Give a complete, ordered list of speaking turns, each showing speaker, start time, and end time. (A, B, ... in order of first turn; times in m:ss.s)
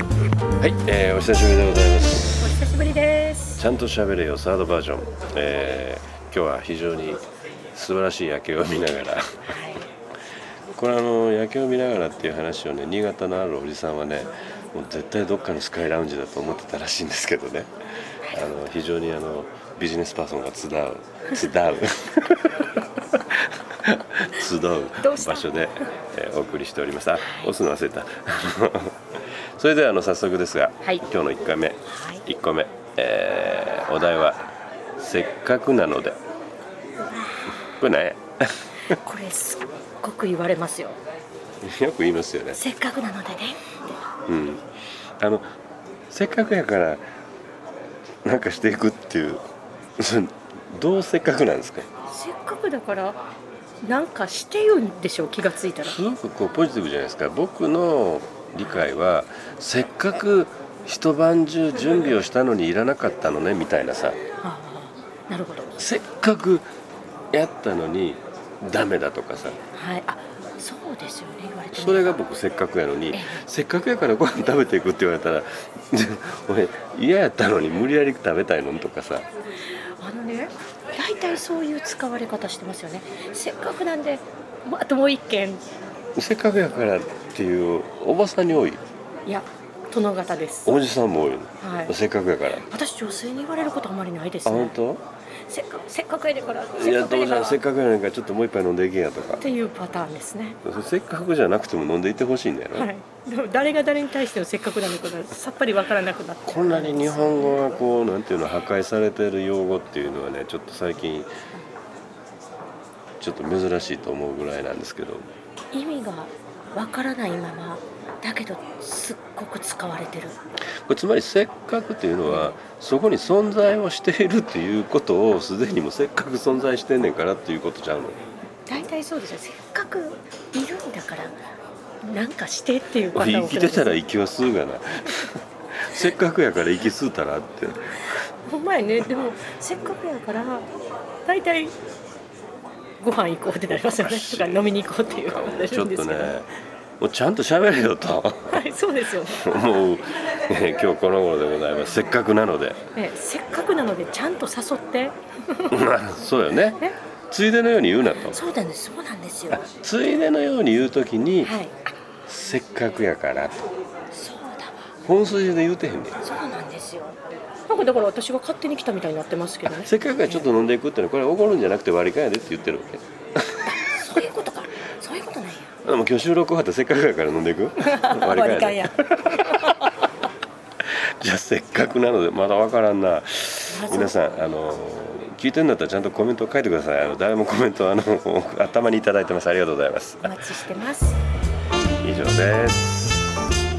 0:00.6-0:02.5 A
0:02.4-0:03.6 B
0:03.6-0:07.2 A
0:07.7-0:09.4 A
0:09.5-0:09.8 B
0:10.7-0:17.7 A
0:18.2-0:18.6 B
0:18.3-0:34.4 A
0:25.0-0:25.5 B
0:27.2-0:27.5 B
0:31.9-0:32.2 B
0:35.0-0:36.2 A
0:37.0-0:37.7 B
0:37.6-0:38.5 A
0:38.9-0:41.0 B
0:41.6-0:42.6 A
0:42.5-0:43.6 B
0:44.3-0:44.6 A
0:45.2-0:45.5 A
0:46.1-0:47.0 A
0:48.2-0:49.4 A
0:50.0-0:51.9 A
0:52.1-0:53.2 B
0:53.8-0:56.0 B
0:55.8-1:04.2 A
1:04.4-1:05.8 B
1:05.8-1:06.7 A
1:07.3-1:09.6 A
1:09.8-1:12.1 B
1:11.7-1:19.3 A
1:13.1-1:13.4 B
1:20.0-1:25.6 B
1:26.2-1:28.8 A
1:29.3-1:30.8 B
1:30.6-1:32.7 A
1:31.6-1:32.0 B
1:32.6-1:34.8 B
1:34.5-1:35.0 A
1:35.5-1:37.6 B
1:36.8-1:39.4 A
1:39.4-1:40.6 B
1:40.6-1:42.9 A
1:42.7-1:47.7 B
1:46.5-1:51.3 A
1:53.2-1:55.2 A
1:55.7-2:00.4 B
2:00.9-2:08.2 A
2:02.3-2:02.6 B
2:08.7-2:11.4 B
2:12.0-2:14.0 B
2:13.1-2:18.1 A
2:18.4-2:20.7 B
2:21.2-2:21.7 B
2:23.0-2:26.4 B
2:23.7-2:26.5 A
2:27.0-2:28.6 A
2:28.5-2:29.5 B
2:29.2-2:32.8 A
2:33.0-2:35.8 B
2:35.7-2:38.4 A
2:38.3-2:39.7 B
2:39.5-2:41.5 A
2:41.4-2:41.8 B
2:42.3-2:43.7 A
2:44.1-2:44.9 B
2:45.0-2:46.2 A
2:46.2-2:47.2 B
2:47.7-2:50.5 B
2:49.7-2:53.7 A
2:53.7-2:55.7 B
2:55.8-2:59.9 A
2:57.8-2:59.8 B
3:00.8-3:10.4 A
3:03.7-3:04.2 B
3:10.2-3:11.2 B
3:12.0-3:13.3 A